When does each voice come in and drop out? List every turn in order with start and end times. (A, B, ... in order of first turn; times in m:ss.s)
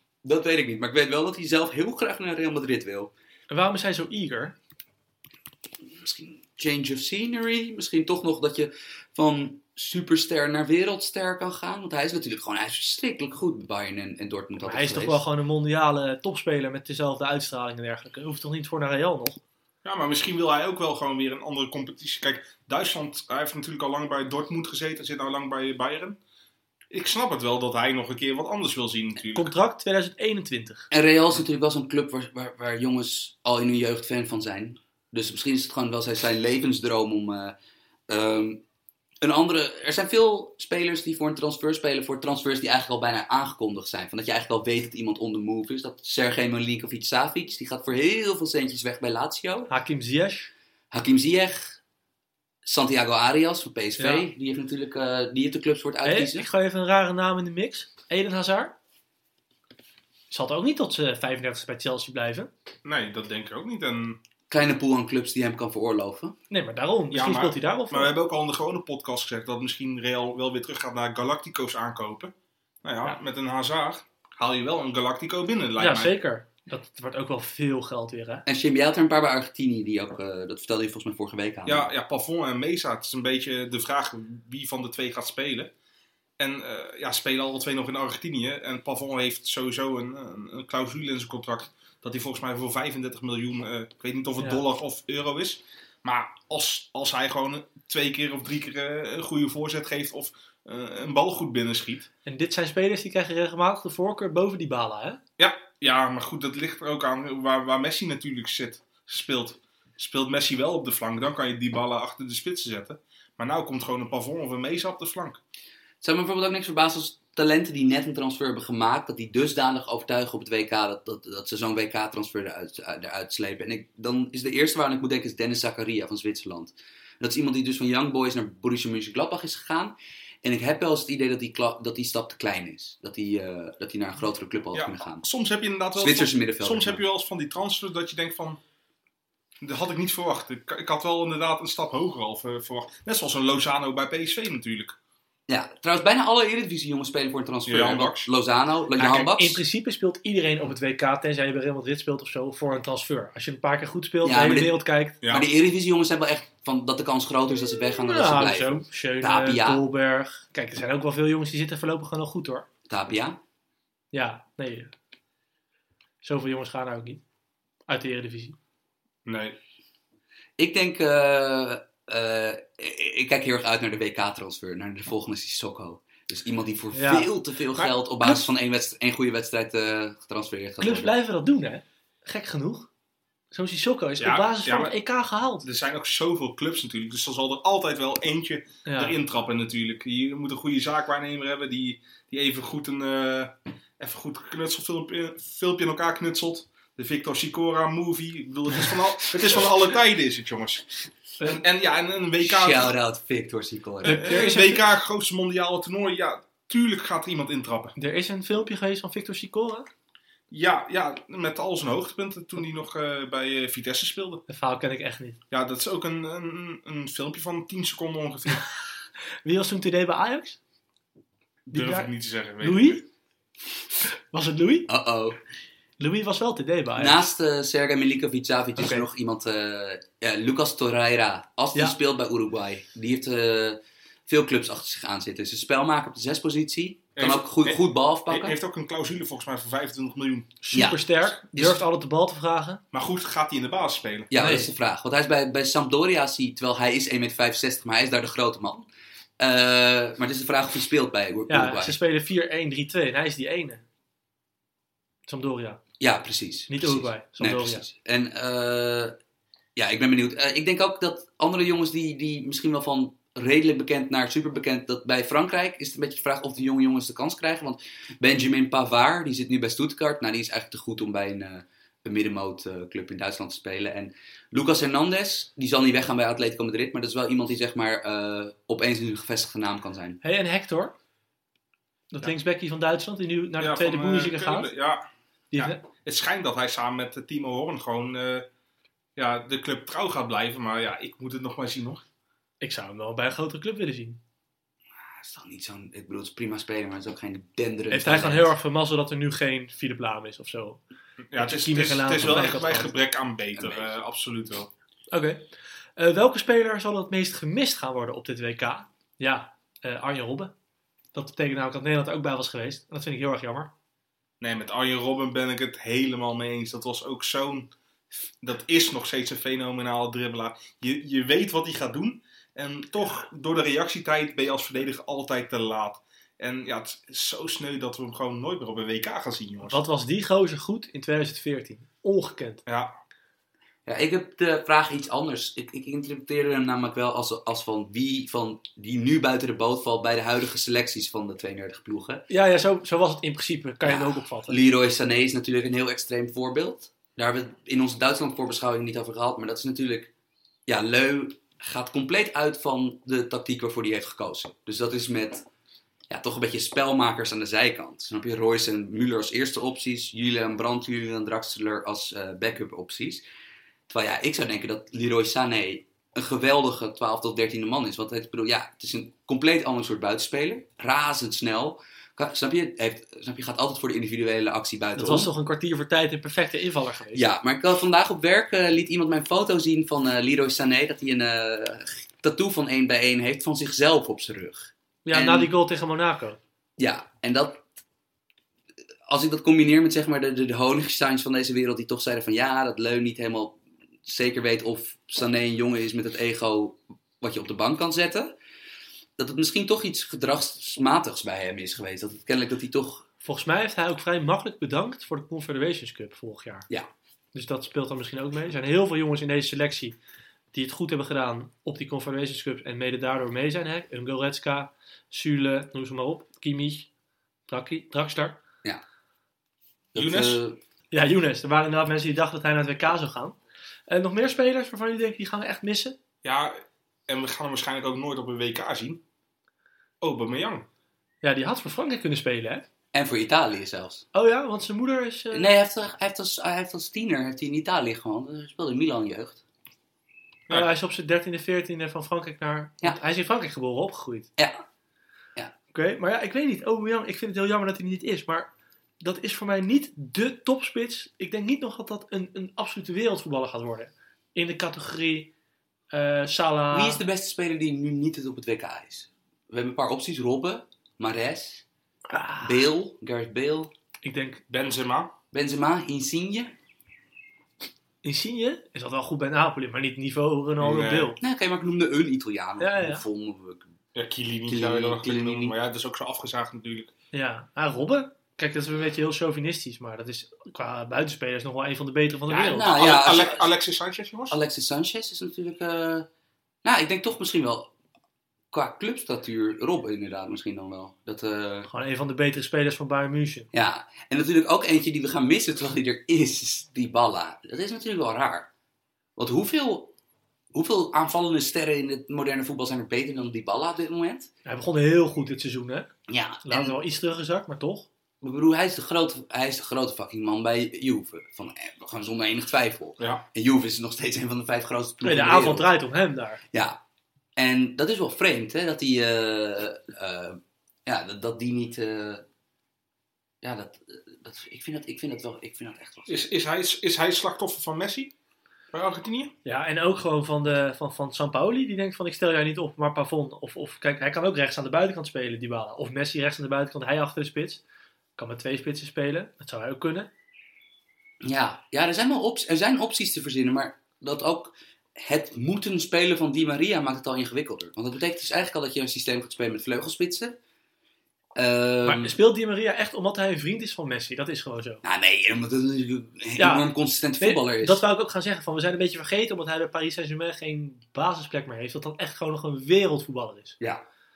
0:00.2-0:03.1 A
0:03.5-0:04.6 B
0:05.8-0:15.2 A
0:14.6-0:19.4 B
0:19.8-0:26.2 C
0:26.9-0:29.5 C
0:29.2-0:30.9 B
0:30.9-0:37.6 A
0:38.1-0:38.6 A
0:39.2-0:49.7 A
0:49.7-0:50.5 B
0:50.9-0:51.8 A
0:52.6-0:56.5 A
0:54.0-0:54.2 B
0:56.0-0:58.7 B
1:00.3-1:02.5 B
1:02.8-1:04.2 C
1:04.5-1:06.4 A
1:06.5-1:08.1 B
1:07.1-1:12.3 C
1:12.8-1:16.1 C
1:15.8-1:18.4 B
1:18.4-1:21.9 A
1:21.6-1:25.7 C
1:26.4-1:42.1 C
1:42.2-1:45.2 B
1:45.4-1:55.4 C
1:56.0-2:15.2 A
2:14.7-2:18.6 C
2:16.0-2:17.0 A
2:19.6-2:25.0 C
2:25.5-2:29.6 A
2:27.7-2:28.3 C
2:29.0-2:35.2 B
2:34.2-2:39.8 A
2:38.0-2:42.6 B
2:42.9-2:43.4 A
2:44.1-2:44.9 B
2:46.2-2:47.2 B
2:47.9-2:48.6 B
2:49.2-2:49.6 C
2:50.6-3:01.1 A
2:56.9-2:58.4 B
3:00.8-3:02.9 B
3:03.5-3:05.6 B
3:04.2-3:05.0 C
3:05.6-3:22.9 C
3:08.8-3:09.1 B
3:22.4-3:24.4 A
3:24.0-3:24.8 B
3:24.0-3:27.9 C
3:28.0-3:29.9 B
3:30.5-3:34.4 C
3:34.5-3:35.4 B
3:35.5-3:38.7 C
3:39.4-3:40.6 B
3:41.7-3:43.0 C
3:41.7-3:43.0 B
3:44.3-3:44.9 B
3:44.9-3:45.4 A
3:46.0-3:47.2 B
3:47.0-3:58.5 A
3:48.8-3:49.0 B
3:57.1-4:00.6 C
4:00.6-4:02.8 B
4:00.7-4:01.8 A
4:02.9-4:04.3 C
4:04.3-4:08.9 A
4:04.4-4:04.7 B
4:09.4-4:12.0 A
4:11.5-4:13.8 B
4:15.3-4:15.8 B
4:16.0-4:19.2 A
4:16.7-4:17.8 B
4:19.8-4:40.2 A
4:40.2-4:41.0 B
4:42.1-4:44.7 B
4:43.6-4:48.4 C
4:45.5-4:45.8 B
4:49.2-4:52.0 C
4:52.6-4:54.2 B
4:55.0-4:58.5 A
4:57.9-5:00.8 B
5:01.3-5:04.7 C
5:01.4-5:02.9 B
5:03.6-5:03.8 A
5:05.1-5:10.5 B
5:11.1-5:13.7 B
5:14.4-5:29.8 C
5:29.7-5:32.6 B
5:32.7-5:32.9 C
5:33.8-5:42.2 A
5:42.3-5:44.6 B
5:43.8-5:50.1 A
5:50.7-5:55.4 A
5:56.1-6:03.2 A
6:03.9-6:15.3 A
6:15.0-6:17.2 B
6:17.1-6:25.5 A
6:25.0-6:26.4 B
6:26.8-6:27.6 A
6:29.0-6:38.4 A
6:39.2-6:43.0 A
6:43.2-6:46.7 B
6:47.3-6:50.0 B
6:50.5-6:56.9 B
6:57.5-6:58.4 B
6:59.9-7:00.6 A
6:59.9-7:00.4 C
7:00.9-7:03.4 B
7:03.9-7:06.0 B
7:06.2-7:09.0 C
7:10.0-7:10.6 C
7:11.2-7:12.6 B
7:12.9-7:14.0 A
7:14.1-7:15.5 B
7:15.3-7:19.4 A
7:20.5-7:24.3 B
7:24.4-7:24.6 A
7:25.7-7:35.3 B
7:35.9-7:37.0 B
7:36.7-7:41.6 A
7:42.1-7:42.7 B
7:42.4-7:43.7 A
7:44.0-7:44.4 B
7:44.5-7:45.1 C
7:45.3-7:46.5 A
7:48.0-7:51.2 B
7:50.6-7:51.1 C
7:51.2-7:53.7 A
7:52.6-7:53.0 B
7:53.9-7:56.9 C
7:54.5-7:55.5 A
7:57.1-8:02.7 B
8:02.3-8:04.4 C
8:02.5-8:03.4 A
8:04.3-8:06.1 A
8:06.6-8:07.7 A
8:08.5-8:11.7 A
8:11.7-8:13.5 B
8:13.5-8:18.5 A
8:19.2-8:19.9 A
8:20.5-8:24.3 A
8:24.4-8:25.9 B
8:26.1-8:26.8 A
8:26.4-8:27.9 B
8:28.2-8:35.7 A
8:33.0-8:33.2 C
8:35.0-8:36.4 B
8:36.5-8:36.8 A
8:37.4-8:42.2 A
8:43.4-8:46.1 A
8:46.1-8:48.1 C
8:48.7-8:49.3 C
8:49.4-8:57.6 B
8:58.2-9:00.1 B
9:01.2-9:10.4 A
9:11.4-9:12.1 A
9:11.8-9:14.8 B
9:14.8-9:17.8 A
9:16.4-9:16.7 B
9:17.2-9:23.6 B